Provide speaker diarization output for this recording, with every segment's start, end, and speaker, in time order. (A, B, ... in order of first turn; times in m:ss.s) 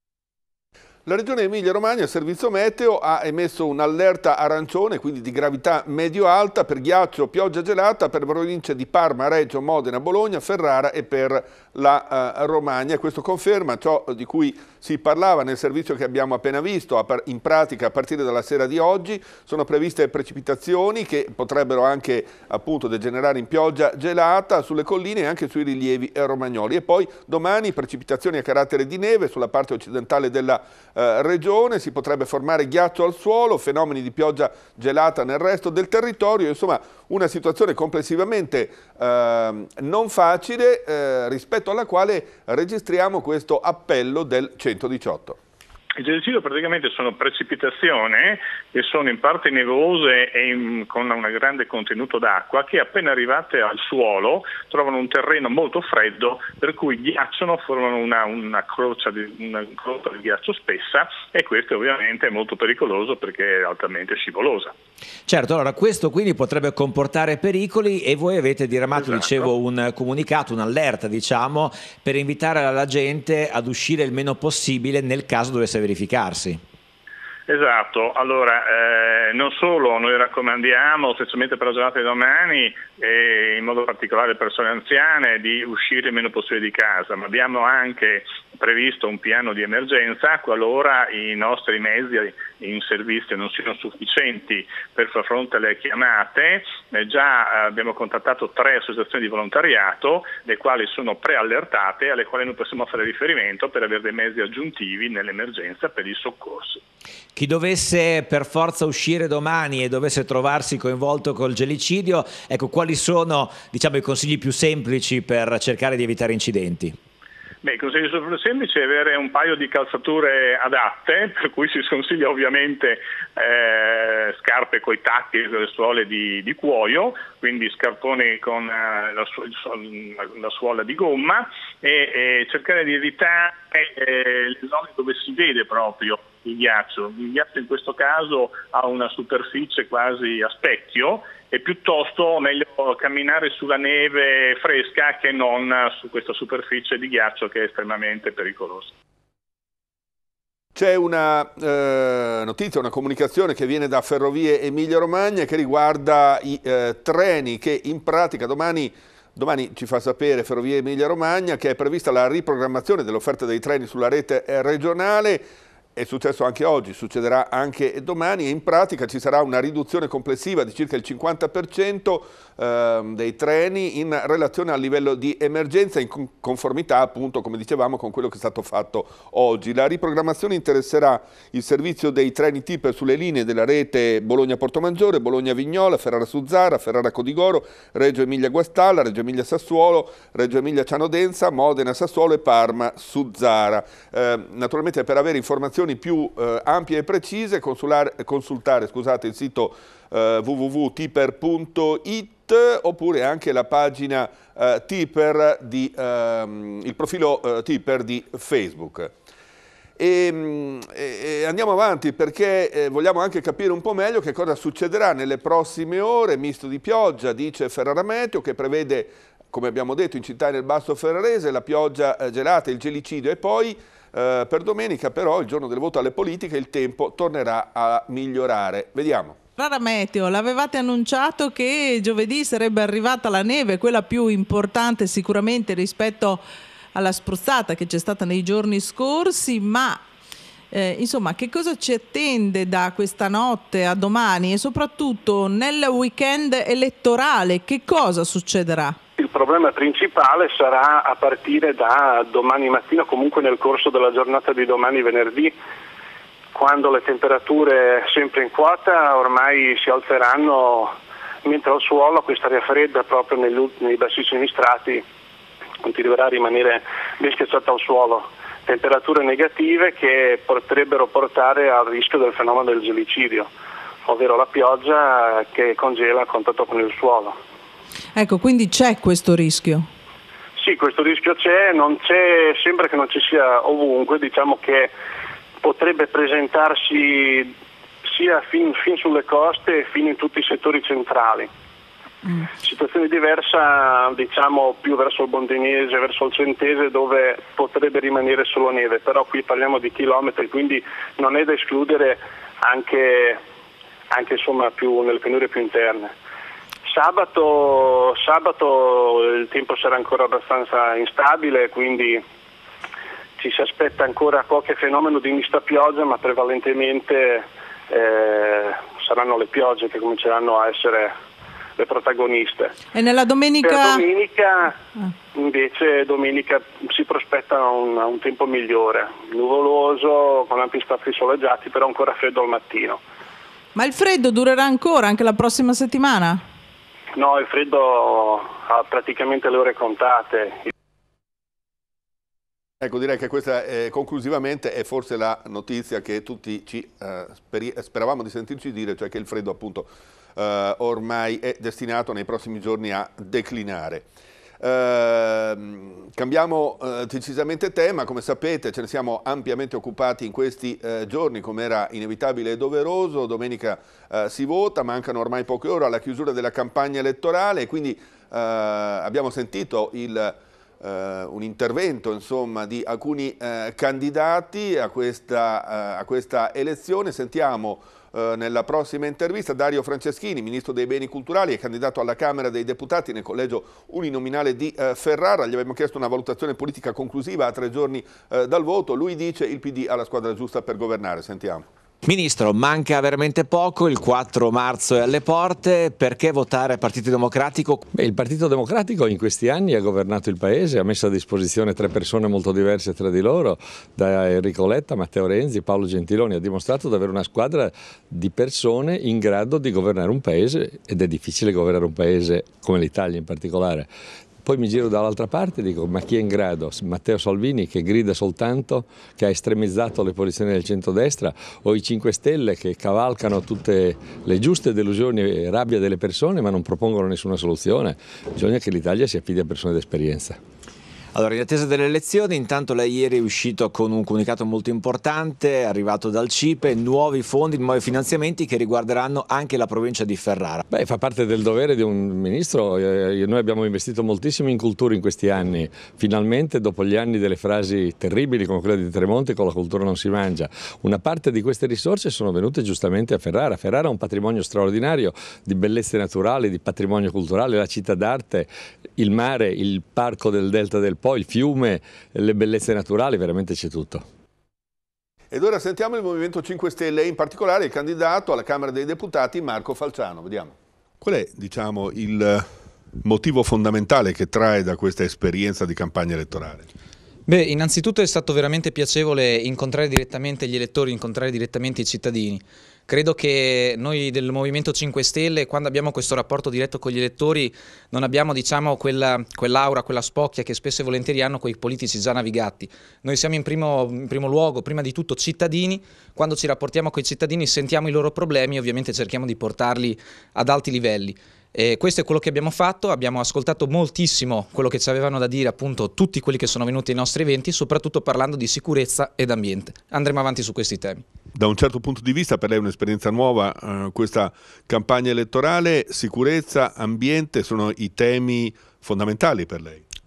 0:01.1-0:45.4 A
0:46.0-1:04.7 B
1:05.3-1:16.6 C
1:17.5-1:46.8 B
1:47.4-1:57.0 C
1:57.6-2:28.9 B
2:30.8-2:45.4 A
2:46.0-3:29.1 A
3:30.0-3:49.4 A
3:49.6-3:56.4 D
3:57.0-4:00.0 D
4:00.7-4:09.0 D
4:09.2-4:15.5 E
4:16.6-4:25.0 E
4:25.8-4:33.5 E
4:34.0-4:37.4 E
4:38.2-4:39.8 D
4:40.6-4:44.9 E
4:45.6-4:47.5 E
4:48.1-4:51.5 E
4:52.6-5:03.4 E
5:04.1-5:06.1 E
5:06.9-5:12.2 E
5:13.4-5:21.2 E
5:21.8-5:22.8 E
5:23.0-5:24.0 D
5:23.6-5:24.8 E
5:25.3-5:33.0 E
5:33.8-5:36.4 D
5:37.2-5:40.7 E
5:42.8-5:54.1 A
5:54.6-6:31.7 A
6:32.0-6:37.8 C
6:37.9-6:53.9 F
6:54.4-7:10.4 F
7:11.1-7:20.6 C
7:20.7-7:44.1 F
7:45.3-7:52.5 A
7:53.0-7:56.7 A
7:57.3-8:31.0 G
8:31.4-8:39.8 A